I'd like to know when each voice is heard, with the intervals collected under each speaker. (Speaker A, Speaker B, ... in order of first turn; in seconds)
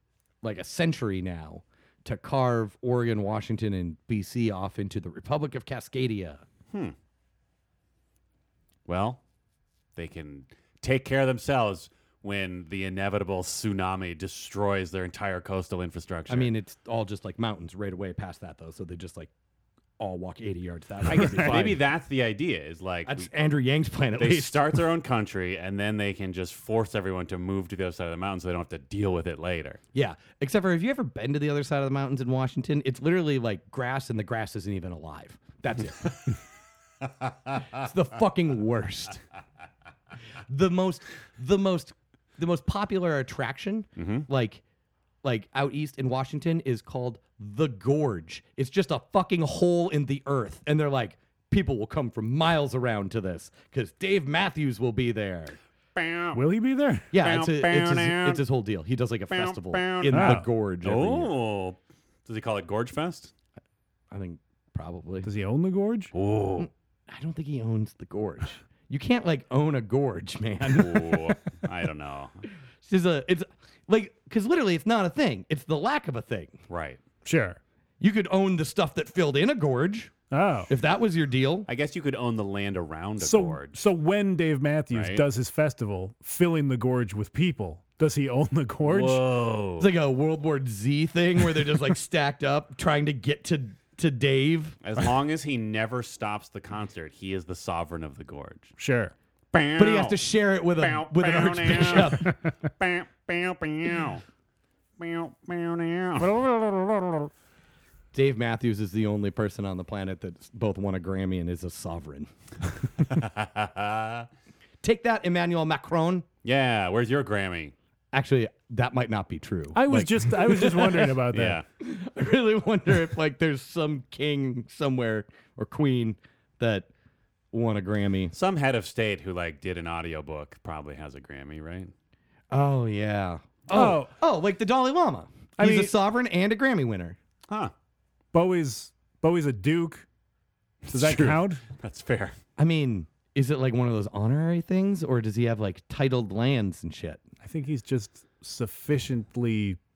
Speaker A: 0.4-6.4, 16.3-19.3, 20.0-21.8, 23.1-24.8, 29.9-36.4, 37.7-39.2, 40.5-44.6, 45.2-55.6, 57.1-61.3, 64.1-65.3, 66.6-71.4, 72.8-76.6, 78.0-80.1, 80.7-81.7, 89.8-94.8, 99.8-102.3, 108.1-112.3, 114.8-116.3, 118.1-121.2, 121.8-126.9, 127.5-128.3, 132.5-137.2, 142.6-147.2
Speaker B: 8.9-9.2, 10.0-16.5, 21.1-23.3, 24.2-29.8, 44.0-44.3, 56.0-56.4, 57.1-58.4, 59.3-63.3, 66.1-66.7, 70.7-72.4, 76.7-77.0, 81.7-83.8, 84.9-85.2, 88.8-89.9, 94.8-98.7, 99.5-100.2, 100.7-104.2, 105.0-106.3, 113.0-114.3, 116.4-117.7, 121.3-121.6, 128.3-131.9, 140.8-142.4
Speaker C: 21.1-21.6, 56.3-57.1, 60.1-60.5, 65.2-66.1, 77.2-77.6, 80.3-80.7, 83.2-89.2, 98.8-99.1, 102.2-102.5, 106.2-107.3, 119.7-121.6, 133.7-134.1, 135.6-135.9, 138.3-140.1, 140.9-141.6, 147.4-149.8